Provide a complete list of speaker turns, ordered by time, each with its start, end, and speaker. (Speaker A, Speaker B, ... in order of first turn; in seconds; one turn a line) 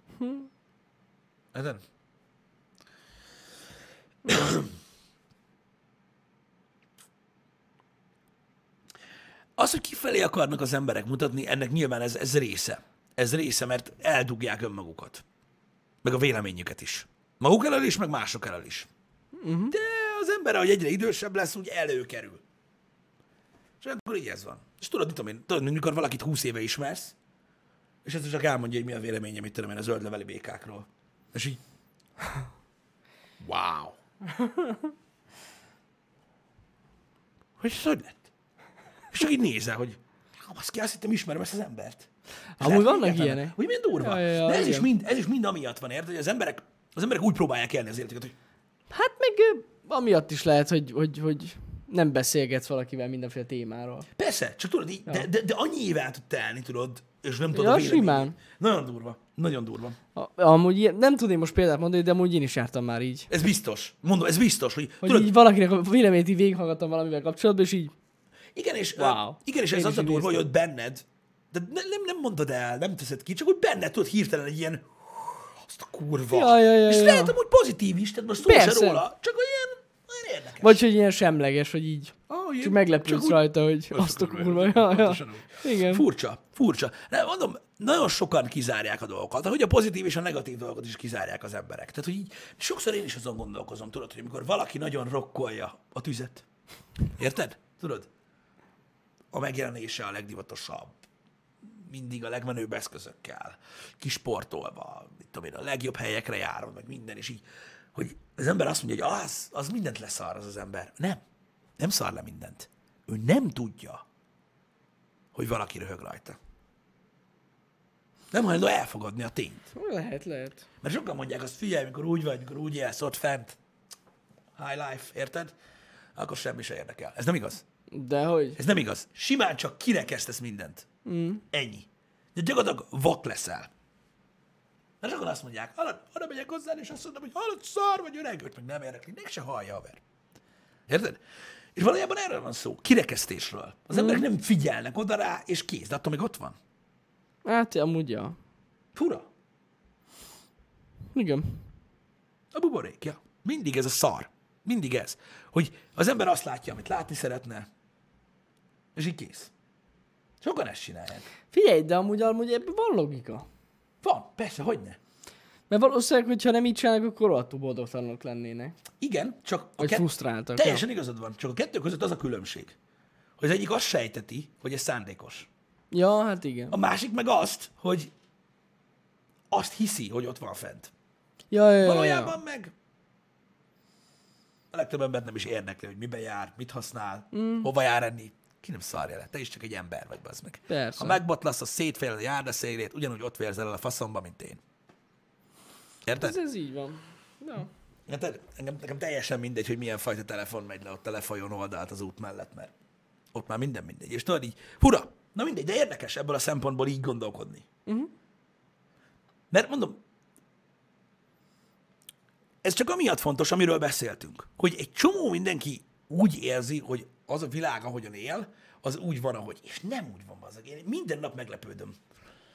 Speaker A: 0.2-0.5
Speaker B: 1.5-1.8
Speaker B: 4.3-4.7
Speaker B: 9.6-15.2
Speaker B: 16.0-18.9
Speaker A: 19.4-19.7
Speaker B: 19.7-22.4
Speaker B: 23.8-27.1
Speaker B: 28.0-31.6
Speaker B: 33.4-34.0
Speaker A: 34.2-34.9
Speaker B: 37.6-38.2
Speaker B: 39.1-42.1
Speaker A: 42.6-44.9
Speaker B: 42.6-48.3
Speaker A: 48.9-54.1
Speaker B: 54.1-60.0
Speaker A: 57.5-58.4
Speaker A: 60.1-63.3
Speaker B: 63.3-65.3
Speaker A: 65.0-67.9
Speaker B: 68.5-80.8
Speaker A: 69.0-70.5
Speaker A: 76.3-77.3
Speaker A: 78.4-79.0
Speaker A: 80.6-86.0
Speaker B: 82.3-96.4
Speaker B: 97.1-98.1
Speaker B: 99.3-101.0
Speaker B: 101.8-107.4
Speaker B: 107.9-111.2
Speaker B: 111.8-114.0
Speaker B: 115.3-116.4
Speaker B: 118.3-119.7
Speaker A: 119.7-120.6
Speaker B: 120.8-123.6
Speaker B: 124.5-125.5
Speaker B: 126.2-127.6
Speaker A: 127.9-128.6
Speaker B: 128.6-130.8
Speaker A: 131.0-131.4
Speaker B: 131.5-133.7
Speaker B: 135.0-140.0
Speaker B: 140.9-141.2
Speaker B: 141.8-146.6
Speaker A: 143.9-144.2
Speaker A: 147.4-148.4
Speaker B: 148.9-149.3
Speaker A: 151.1-151.6
Speaker B: 152.5-157.7
Speaker B: 158.9-159.5
Speaker B: 160.4-161.2
Speaker A: 161.5-163.5
Speaker B: 164.0-165.0
Speaker A: 165.7-168.8
Speaker B: 169.0-172.7
Speaker A: 169.8-170.8
Speaker B: 173.4-175.5
Speaker A: 175.9-176.7
Speaker B: 176.7-178.1
Speaker B: 179.5-180.9
Speaker A: 181.5-182.4
Speaker B: 181.8-182.7
Speaker B: 184.7-194.6
Speaker A: 187.3-187.7
Speaker A: 190.7-191.2
Speaker B: 196.1-196.4
Speaker A: 196.2-197.7
Speaker B: 198.1-202.7
Speaker B: 203.3-207.7
Speaker A: 207.8-208.1
Speaker B: 209.5-210.0
Speaker B: 212.6-222.0